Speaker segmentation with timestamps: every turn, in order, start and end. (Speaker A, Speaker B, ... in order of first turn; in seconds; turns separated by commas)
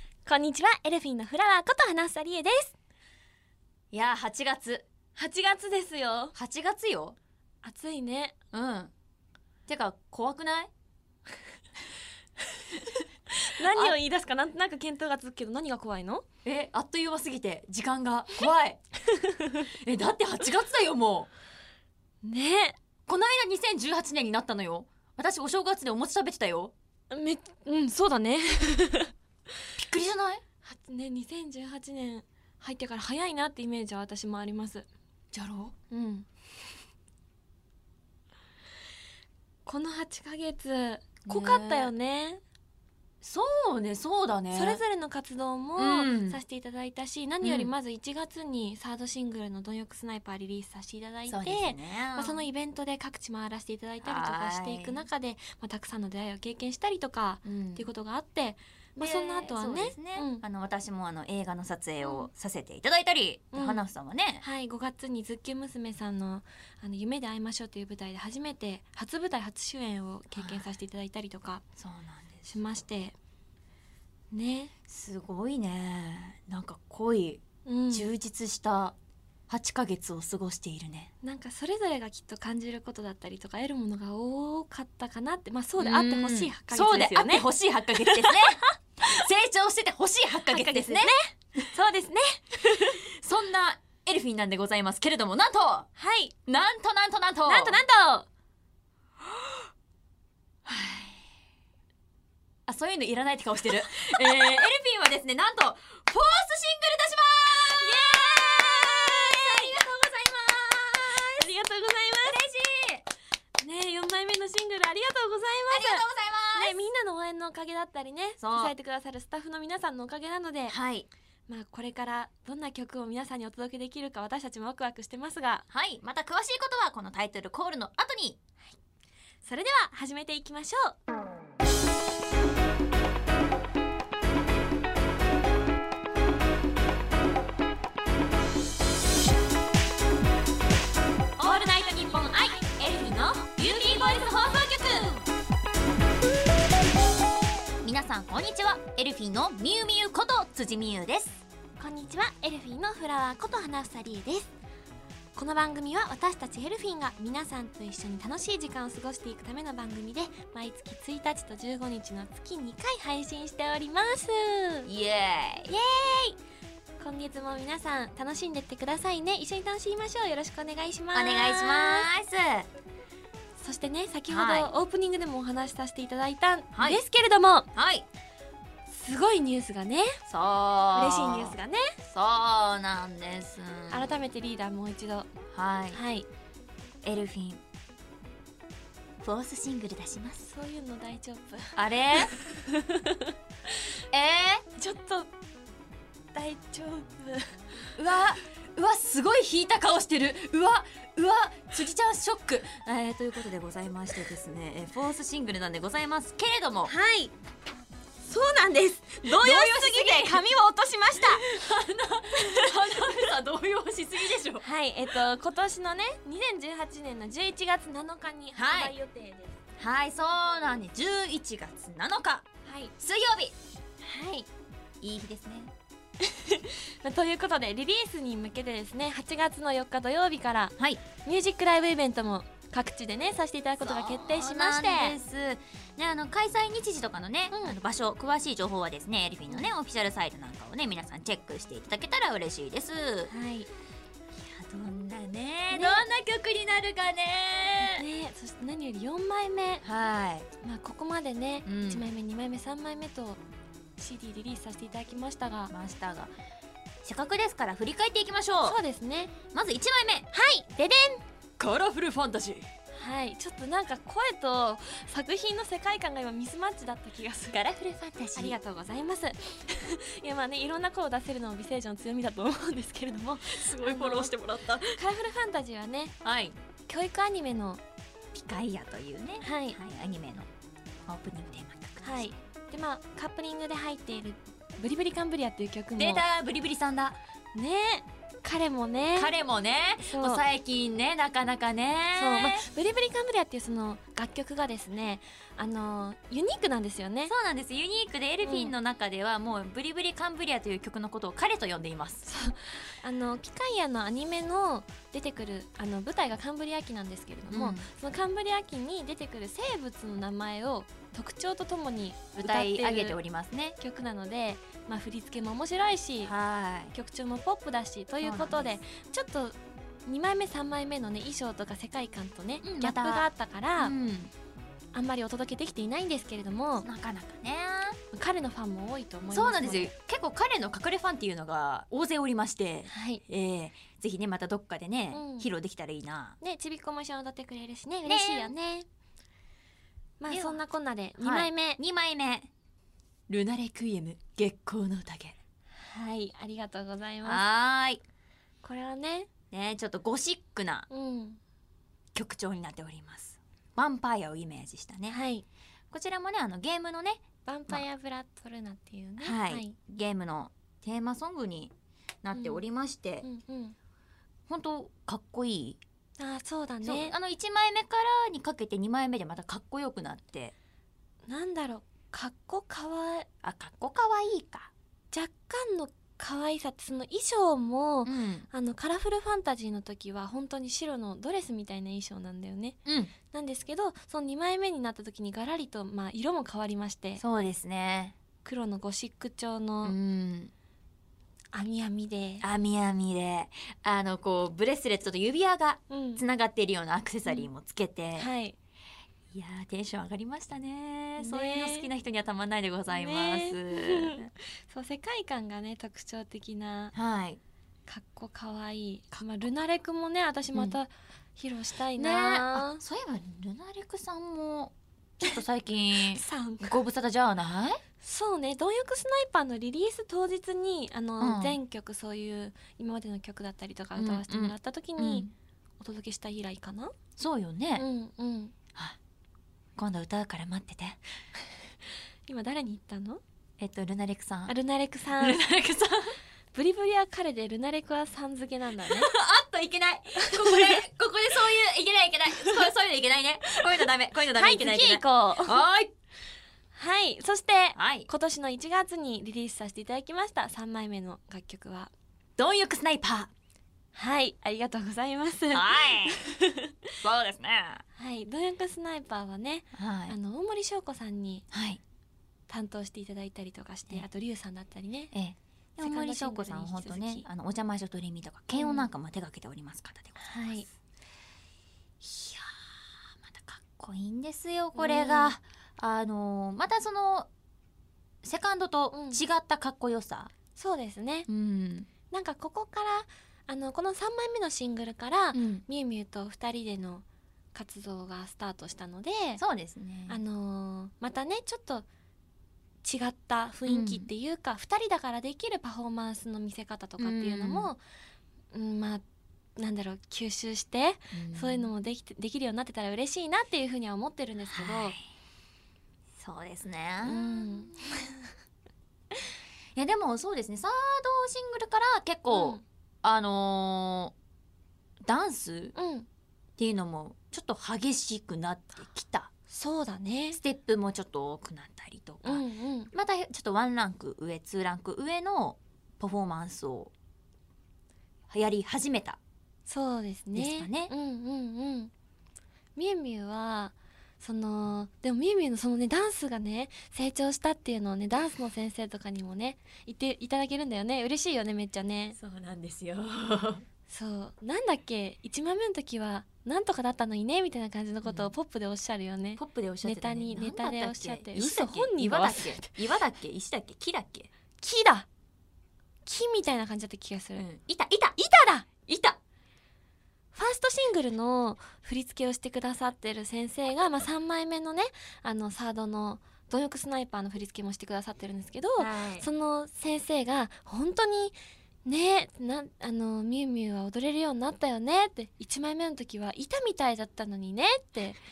Speaker A: 0.2-2.7, Speaker B: 3.9-4.8, Speaker A: 5.1-6.3, Speaker B: 6.3-7.2, Speaker A: 7.6-8.3, Speaker B: 8.5-8.9, Speaker B: 9.7-10.7, Speaker A: 13.3-16.2, Speaker B: 13.7-13.9, Speaker B: 16.4-18.8, Speaker A: 19.1-19.6, Speaker B: 19.7-21.3, Speaker A: 22.2-22.8, Speaker B: 23.1-26.7, Speaker A: 27.1-29.1, Speaker B: 29.8-30.4, Speaker A: 30.6-34.9, Speaker B: 35.3-35.7, Speaker A: 35.9-36.3, Speaker A: 39.6-42.4, Speaker B: 41.2-41.9, Speaker B: 43.2-44.8, Speaker A: 44.5-60.4, Speaker B: 45.8-46.4, Speaker B: 47.4-47.7, Speaker B: 51.3-52.4, Speaker B: 54.0-55.0, Speaker B: 57.4-57.9, Speaker B: 59.0-64.4, Speaker A: 62.0-62.3, Speaker A: 63.5-63.8, Speaker A: 64.4-71.6, Speaker B: 70.3-70.7, Speaker B: 71.8-72.6, Speaker A: 72.5-73.1, Speaker A: 74.3-74.7, Speaker B: 74.9-79.0, Speaker A: 77.6-78.1, Speaker B: 79.5-81.1, Speaker A: 81.2-88.6, Speaker B: 85.8-91.7, Speaker A: 90.5-93.0, Speaker B: 92.7-95.9, Speaker A: 96.0-96.3, Speaker B: 96.5-97.8, Speaker A: 97.4-98.3, Speaker B: 100.7-101.2, Speaker B: 102.7-111.5, Speaker A: 103.8-104.6, Speaker A: 107.5-109.8, Speaker A: 111.0-112.4, Speaker B: 112.2-113.0, Speaker A: 113.6-120.8, Speaker B: 115.7-116.8, Speaker B: 118.4-118.7, Speaker B: 120.7-121.1, Speaker A: 121.5-125.6, Speaker B: 125.7-128.4, Speaker A: 129.4-130.9, Speaker B: 141.4-145.2, Speaker B: 147.8-151.4, Speaker A: 151.8-154.5, Speaker A: 155.3-164.9, Speaker B: 164.8-165.7, Speaker A: 165.7-166.4, Speaker A: 167.0-172.1, Speaker B: 171.1-172.7, Speaker A: 173.6-177.7, Speaker B: 174.3-174.7, Speaker B: 176.7-177.0, Speaker B: 177.7-178.1, Speaker A: 178.9-180.2, Speaker B: 180.3-184.1, Speaker A: 180.9-181.9, Speaker A: 183.9-185.3, Speaker B: 185.5-186.0, Speaker A: 185.9-186.3, Speaker B: 187.0-187.6, Speaker B: 189.2-190.5, Speaker A: 190.5-193.9, Speaker B: 191.8-192.4, Speaker B: 194.1-194.7, Speaker A: 194.8-195.3, Speaker A: 196.3-197.6, Speaker B: 197.9-206.9, Speaker A: 206.9-207.3, Speaker A: 208.2-211.4, Speaker B: 209.2-210.4, Speaker B: 211.2-214.7, Speaker A: 212.4-213.2, Speaker A: 214.6-219.6, Speaker B: 218.6-218.9, Speaker B: 219.8-223.5, Speaker A: 222.6-222.9, Speaker A: 224.0-224.5, Speaker B: 225.0-225.7, Speaker A: 226.2-235.2, Speaker B: 233.8-243.3, Speaker A: 237.5-237.8, Speaker A: 243.3-243.7, Speaker B: 244.3-248.1, Speaker A: 245.7-246.1, Speaker A: 247.8-249.8, Speaker B: 249.8-250.5, Speaker A: 250.6-253.4, Speaker B: 251.6-252.1, Speaker A: 254.0-255.7, Speaker B: 255.7-256.3, Speaker B: 257.0-258.8, Speaker A: 258.6-259.3, Speaker B: 259.5-260.3, Speaker A: 260.3-261.2, Speaker B: 261.6-262.7, Speaker A: 262.9-267.6, Speaker B: 267.5-268.6, Speaker A: 268.3-276.1, Speaker B: 273.5-275.0, Speaker B: 276.2-276.6, Speaker A: 276.9-277.8, Speaker B: 278.3-280.5, Speaker A: 279.4-279.8, Speaker B: 281.1-282.4, Speaker A: 282.0-286.2, Speaker B: 286.0-287.2, Speaker A: 287.5-289.3, Speaker B: 289.1-292.6, Speaker A: 290.0-290.4, Speaker A: 292.1-297.3, Speaker B: 297.3-302.3, Speaker A: 298.4-298.7, Speaker A: 302.3-313.2, Speaker B: 307.5-307.9, Speaker B: 312.4-313.8, Speaker A: 313.8-316.3, Speaker B: 316.2-316.9, Speaker A: 316.9-323.9, Speaker B: 318.2-318.8, Speaker B: 322.6-323.3, Speaker B: 323.8-324.3, Speaker A: 324.9-326.9, Speaker B: 326.8-328.0, Speaker A: 328.1-329.9, Speaker B: 329.3-336.4, Speaker A: 332.9-333.2, Speaker A: 335.1-335.5, Speaker A: 336.4-338.9, Speaker B: 338.1-338.5, Speaker A: 340.2-341.8, Speaker B: 340.3-340.6, Speaker B: 341.2-342.5, Speaker B: 343.3-345.4, Speaker A: 345.8-347.4, Speaker B: 347.2-348.0, Speaker A: 348.6-349.3, Speaker B: 349.5-350.9, Speaker A: 350.9-351.4, Speaker B: 352.1-355.2, Speaker A: 355.1-355.4, Speaker B: 355.9-357.8, Speaker A: 357.4-359.7, Speaker B: 359.2-361.7, Speaker B: 362.2-363.2, Speaker A: 362.3-362.6, Speaker A: 363.2-363.8, Speaker B: 364.5-365.8, Speaker A: 366.2-367.1, Speaker B: 366.8-370.5, Speaker A: 371.2-373.3, Speaker B: 373.4-374.7, Speaker A: 375.1-382.8, Speaker B: 378.0-378.5, Speaker B: 382.9-383.1, Speaker A: 383.3-387.2, Speaker B: 387.2-388.2, Speaker A: 388.4-389.9, Speaker B: 389.8-390.5, Speaker A: 391.5-392.4, Speaker B: 392.4-398.3, Speaker A: 395.9-396.2, Speaker A: 398.1-398.6, Speaker B: 399.3-404.3, Speaker A: 401.2-401.9, Speaker A: 402.9-406.9, Speaker B: 406.9-407.4, Speaker A: 407.9-412.8, Speaker B: 412.0-417.8, Speaker A: 416.0-416.8, Speaker A: 418.0-425.2, Speaker B: 421.2-421.6, Speaker B: 424.0-425.3, Speaker A: 425.8-426.9, Speaker B: 427.2-427.9, Speaker A: 427.8-428.5, Speaker B: 429.8-431.0, Speaker A: 432.3-433.2, Speaker B: 433.6-434.6, Speaker A: 434.5-435.4, Speaker B: 435.1-436.2, Speaker A: 436.5-439.1, Speaker B: 438.8-445.9, Speaker A: 440.2-440.8, Speaker A: 442.4-442.7, Speaker A: 443.8-445.6, Speaker A: 446.7-451.9, Speaker B: 447.8-448.1, Speaker B: 452.4-453.3, Speaker A: 453.9-456.8, Speaker B: 455.5-456.2, Speaker B: 457.0-457.8, Speaker A: 457.9-461.4, Speaker B: 459.7-460.1, Speaker B: 461.5-461.8, Speaker A: 462.5-465.1, Speaker B: 465.1-470.7, Speaker A: 465.8-467.2, Speaker A: 468.5-468.9, Speaker A: 470.2-470.6, Speaker B: 472.0-477.3, Speaker A: 474.7-475.3, Speaker B: 478.2-480.3, Speaker A: 478.9-479.2, Speaker A: 480.6-481.3, Speaker B: 481.3-481.9, Speaker A: 482.1-489.4, Speaker B: 485.3-485.6, Speaker B: 489.4-490.2, Speaker A: 490.1-491.9, Speaker A: 492.8-497.8, Speaker B: 493.7-494.1, Speaker B: 497.0-497.7, Speaker A: 498.5-499.0, Speaker A: 499.6-504.9, Speaker B: 501.1-501.7, Speaker B: 504.5-505.1, Speaker B: 506.2-508.1, Speaker A: 507.0-507.8, Speaker B: 509.8-514.1, Speaker A: 512.3-512.6, Speaker B: 515.0-515.7, Speaker A: 515.7-516.1, Speaker B: 516.6-519.3, Speaker A: 519.5-520.4, Speaker B: 520.3-526.9, Speaker A: 522.2-522.9, Speaker B: 528.3-529.2, Speaker A: 529.6-531.9, Speaker B: 530.3-530.9, Speaker A: 532.8-542.2, Speaker B: 542.2-543.6, Speaker A: 543.9-552.7, Speaker B: 548.0-548.3, Speaker B: 549.4-554.3, Speaker A: 554.6-555.1, Speaker A: 556.0-557.4, Speaker B: 557.4-558.2, Speaker A: 558.2-558.7, Speaker B: 558.9-559.2, Speaker A: 560.3-578.2, Speaker B: 568.8-569.3